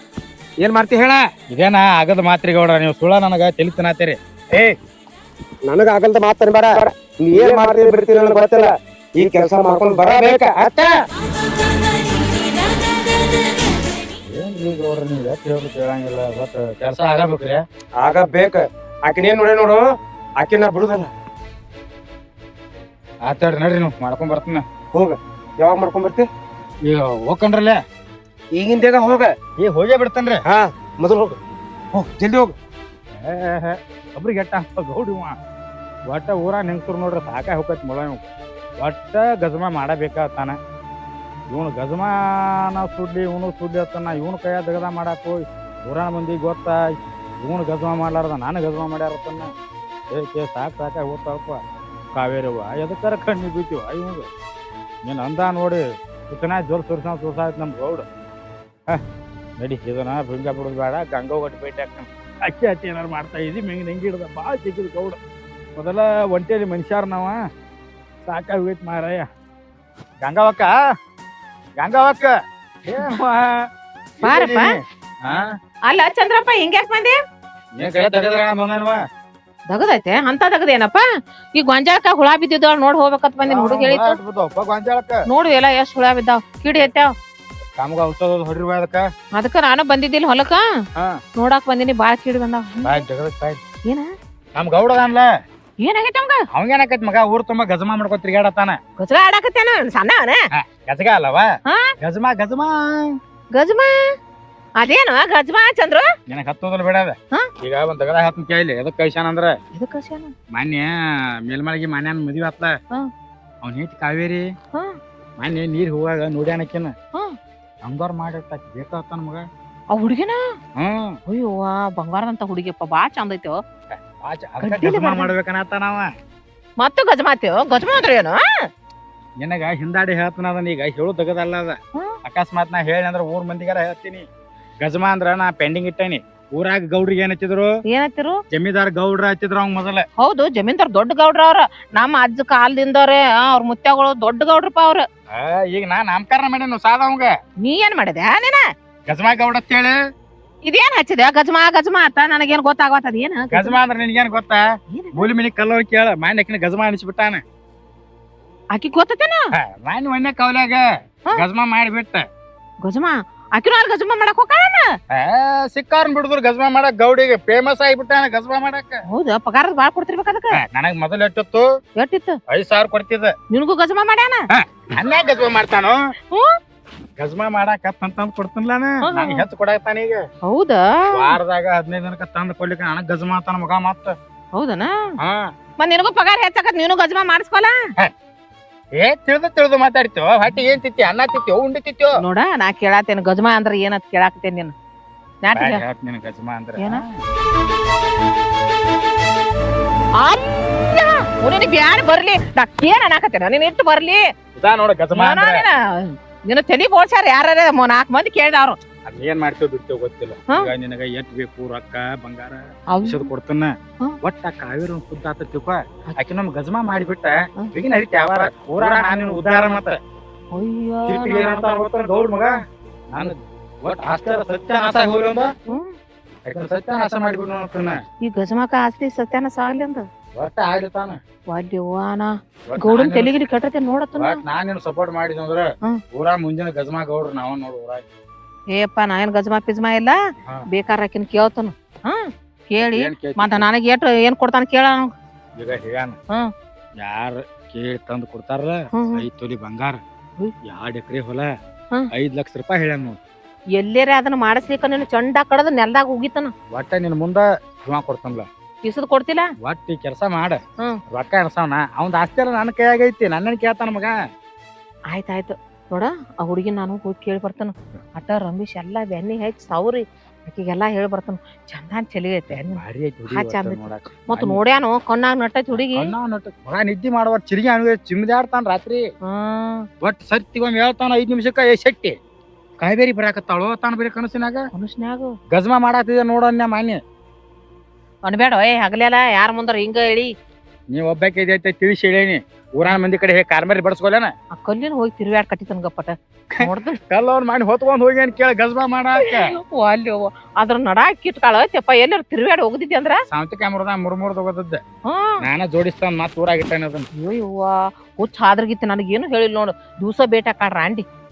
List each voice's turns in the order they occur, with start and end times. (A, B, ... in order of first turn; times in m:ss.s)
0:00.6-0:01.3 A
0:01.5-0:04.2 B
0:05.6-0:10.9 A
0:14.2-0:17.6 B
0:18.0-0:19.8 A
0:20.4-0:21.1 A
0:23.2-0:24.6 B
0:24.9-0:26.3 A
0:26.9-0:27.8 B
0:28.5-0:29.3 A
0:29.6-0:30.4 B
0:30.5-0:31.4 A
0:31.9-0:32.5 A
0:33.2-0:35.4 B
0:36.1-0:38.3 B
0:38.8-0:40.6 B
0:41.5-0:46.9 B
0:47.4-0:49.5 B
0:50.1-0:51.6 B
0:52.1-0:54.3 B
0:55.0-0:58.0 B
0:59.6-1:05.2 B
1:05.8-1:07.4 B
1:08.3-1:09.3 B
1:10.2-1:10.8 B
1:11.8-1:12.3 B
1:12.9-1:13.7 B
1:14.2-1:15.5 B
1:14.2-1:14.8 C
1:15.9-1:17.2 C
1:17.8-1:19.0 B
1:19.7-1:21.0 C
1:21.6-1:24.2 C
1:23.4-1:25.2 B
1:25.3-1:27.1 C
1:27.8-1:29.1 B
1:29.4-1:30.6 C
1:31.4-1:33.0 C
1:32.8-1:33.6 B
1:34.6-1:35.3 B
1:35.8-1:36.4 C
1:36.5-1:38.8 B
1:39.0-1:40.4 C
1:40.5-1:43.2 B
1:41.6-1:41.9 C
1:43.5-1:44.0 C
1:44.8-1:46.1 C
1:46.3-1:49.6 B
1:49.8-1:50.3 C
1:50.5-1:50.9 B
1:51.5-1:52.8 B
1:53.6-1:54.5 B
1:55.4-1:56.9 B
1:57.8-1:59.5 B
1:59.9-2:00.4 C
2:00.8-2:01.2 B
2:01.3-2:03.6 C
2:03.9-2:06.1 B
2:04.6-2:05.3 C
2:06.8-2:08.4 C
2:09.4-2:14.3 B
2:14.8-2:17.7 B
2:17.9-2:18.4 C
2:18.5-2:20.0 B
2:20.2-2:25.0 C
2:25.4-2:27.3 B
2:27.6-2:28.6 C
2:29.1-2:30.0 B
2:30.6-2:33.8 C
2:33.5-2:34.6 B
2:34.9-2:35.2 C
2:35.1-2:37.4 B
2:38.7-2:39.5 C
2:39.5-2:42.3 B
2:42.8-2:44.9 C
2:45.1-2:49.0 B
2:49.1-2:50.6 C
2:50.5-2:51.7 B
2:52.0-2:52.4 C
2:52.5-2:53.4 B
2:53.5-2:54.4 C
2:54.5-2:56.0 B
2:57.2-3:00.2 B
2:59.0-2:59.5 C
3:00.5-3:01.4 C
3:01.1-3:04.2 B
3:04.5-3:04.9 C
3:05.2-3:05.5 B
3:05.8-3:07.7 C
3:09.0-3:12.2 B
3:12.2-3:14.7 C
3:15.4-3:15.8 C
3:15.5-3:17.2 B
3:20.2-3:24.2 C
3:24.6-3:25.6 B
3:25.1-3:28.8 C
3:29.0-3:40.0 B
3:32.9-3:33.3 C
3:40.5-3:41.6 C
3:41.1-3:42.5 B
3:43.1-3:45.5 B
3:45.7-3:45.9 C
3:46.5-3:48.0 B
3:48.2-3:50.0 C
3:50.4-3:51.2 B
3:51.5-3:54.4 C
3:52.7-3:53.3 B
3:54.2-3:58.0 B
3:58.7-4:00.2 C
4:00.7-4:05.1 C
4:02.8-4:03.6 B
4:05.6-4:06.2 B
4:07.0-4:10.0 B
4:08.9-4:09.2 C
4:10.6-4:11.5 B
4:12.1-4:13.2 B
4:13.8-4:16.5 C
4:16.7-4:18.5 B
4:18.8-4:19.5 C
4:19.6-4:20.6 B
4:21.1-4:24.1 B
4:25.1-4:36.1 C
4:32.5-4:34.6 B
4:35.8-4:39.0 B
4:39.2-4:39.9 C
4:40.0-4:42.2 B
4:42.8-4:44.7 B
4:44.7-4:45.3 C
4:45.5-4:47.0 B
4:48.2-4:50.3 C
4:50.9-4:54.3 B
4:54.6-4:57.0 C
4:56.6-4:59.5 B
4:59.2-5:03.2 C
5:03.3-5:04.8 B
5:05.0-5:05.4 C
5:05.4-5:07.1 B
5:07.2-5:11.0 C